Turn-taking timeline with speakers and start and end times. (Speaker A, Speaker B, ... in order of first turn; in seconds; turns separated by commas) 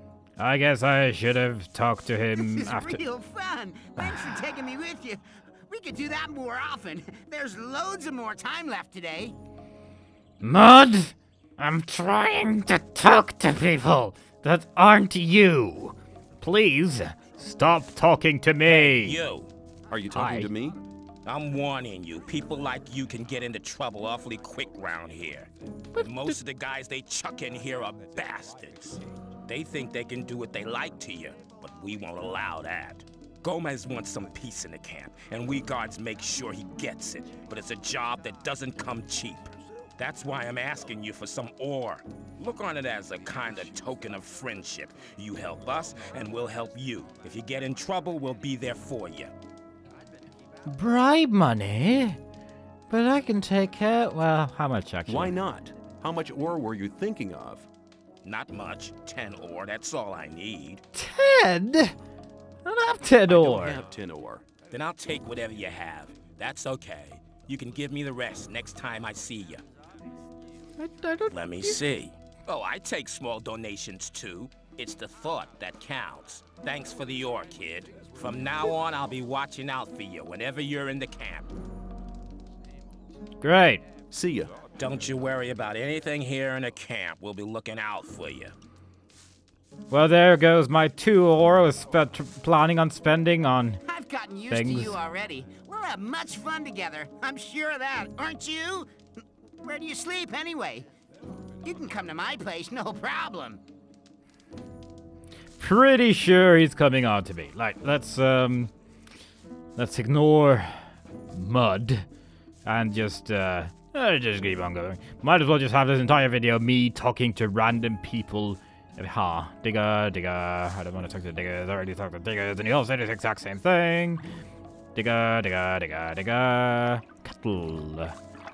Speaker A: 0.4-3.0, Speaker B: 2.4-9.3, Speaker A: 4.0-4.4, Speaker A: 10.4-19.2, Speaker C: 18.6-19.5, Speaker D: 19.9-20.8, Speaker A: 20.1-20.5, Speaker C: 21.2-49.3, Speaker A: 25.9-26.4, Speaker A: 50.7-52.2, Speaker A: 52.9-55.4, Speaker D: 55.1-57.7, Speaker C: 58.2-60.8, Speaker A: 60.9-61.9, Speaker A: 62.6-63.8, Speaker D: 63.3-64.4, Speaker C: 64.7-69.6, Speaker A: 70.8-71.8, Speaker C: 71.3-81.5, Speaker A: 83.4-83.9, Speaker D: 84.1-84.6, Speaker C: 84.8-88.5, Speaker A: 89.9-93.8, Speaker B: 93.8-98.9, Speaker A: 94.5-95.0, Speaker B: 99.6-100.9, Speaker B: 101.6-103.6, Speaker A: 105.6-108.7, Speaker A: 109.8-112.0, Speaker A: 112.6-124.2, Speaker A: 124.9-128.1